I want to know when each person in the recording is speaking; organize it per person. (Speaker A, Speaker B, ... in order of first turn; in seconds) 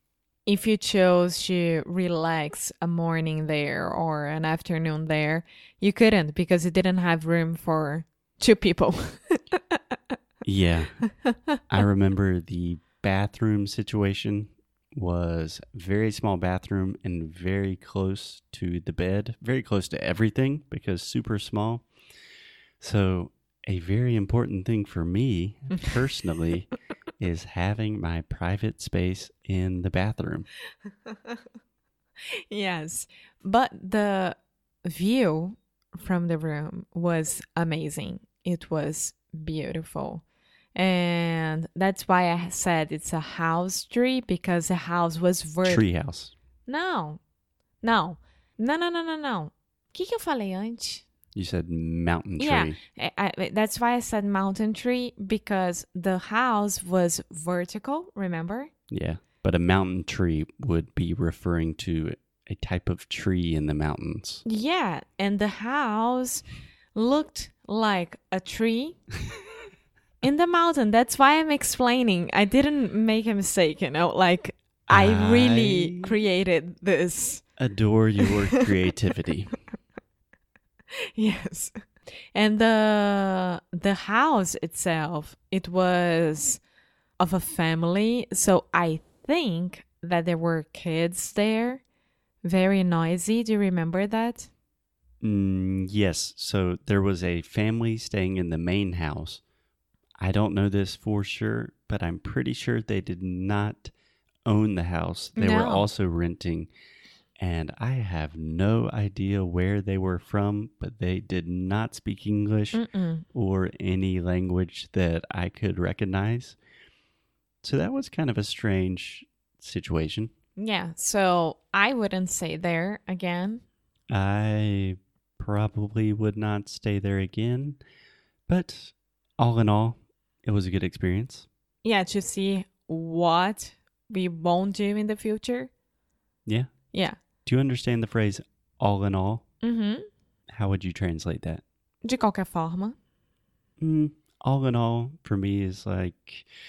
Speaker A: 0.5-9.8, 31.1-31.4, 32.5-40.2, 40.8-45.9, 46.7-47.2, 47.8-51.0, 52.4-58.7, 64.5-69.1, 70.2-77.4, 81.2-81.7, 82.3-86.6, 87.2-91.8, 92.4-94.5, 105.4-105.9, 112.7-113.2, 120.6-123.6, 131.8-135.7, 136.9-137.2, 139.6-140.1, 142.0-143.0
Speaker B: 10.4-21.9, 22.8-30.5, 45.6-46.3, 51.4-52.8, 58.9-64.4, 74.9-76.2, 77.6-79.5, 95.2-99.4, 100.2-103.9, 104.5-106.7, 107.4-112.8, 113.3-116.6, 117.6-120.3, 124.1-127.8, 128.5-131.5, 137.5-139.4, 140.5-141.6, 143.8-146.5